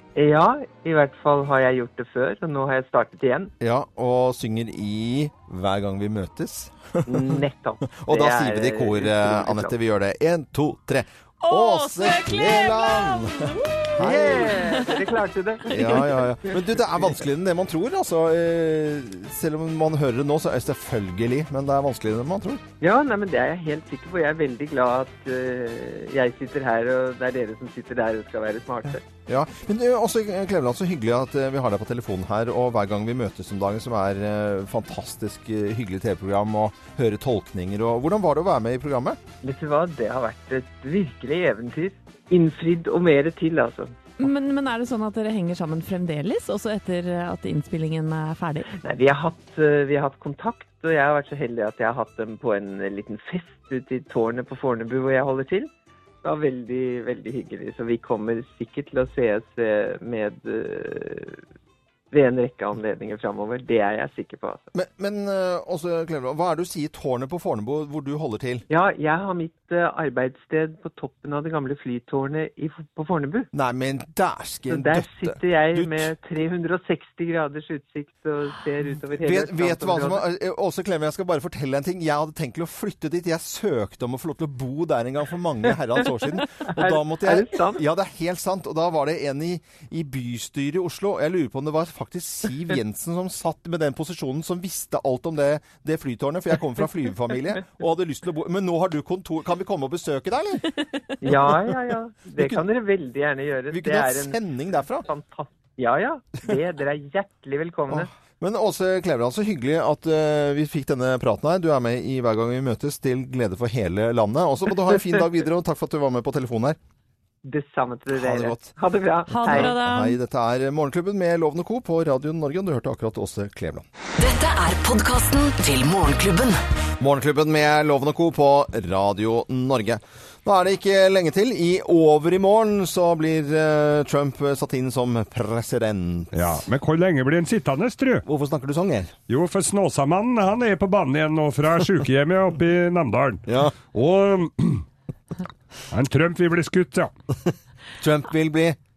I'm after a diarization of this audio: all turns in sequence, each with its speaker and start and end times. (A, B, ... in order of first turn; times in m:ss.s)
0:00.2-0:03.5 A
0:03.6-0:14.6 B
0:07.1-0:09.7 A
0:11.4-0:15.0 C
0:14.0-0:16.5 A
0:15.7-0:22.6 B
0:15.7-0:16.2 C
0:22.8-0:29.0 A
0:29.2-0:39.2 B
0:39.4-0:44.0 A
0:44.2-0:48.7 C
0:48.8-0:55.7 A
0:56.2-1:01.4 A
1:02.1-1:04.6 A
1:04.7-1:08.6 B
1:08.7-1:13.5 A
1:13.5-1:16.1 B
1:14.7-1:20.2 A
1:19.2-1:40.6 B
1:26.6-1:27.8 A
1:41.2-1:44.4 A
1:41.3-1:41.5 B
1:42.4-1:42.6 B
1:43.7-1:45.0 B
1:45.0-1:48.1 A
1:47.9-1:56.8 B
1:57.4-1:59.7 A
1:58.1-1:58.7 B
1:59.3-2:00.1 C
1:59.4-2:03.8 B
2:04.2-2:06.6 D
2:07.0-2:16.6 B
2:16.4-2:18.2 E
2:18.2-2:19.1 B
2:19.3-2:23.4 E
2:23.5-2:23.7 B
2:23.9-2:24.8 E
2:25.9-2:27.1 E
2:28.0-2:28.8 B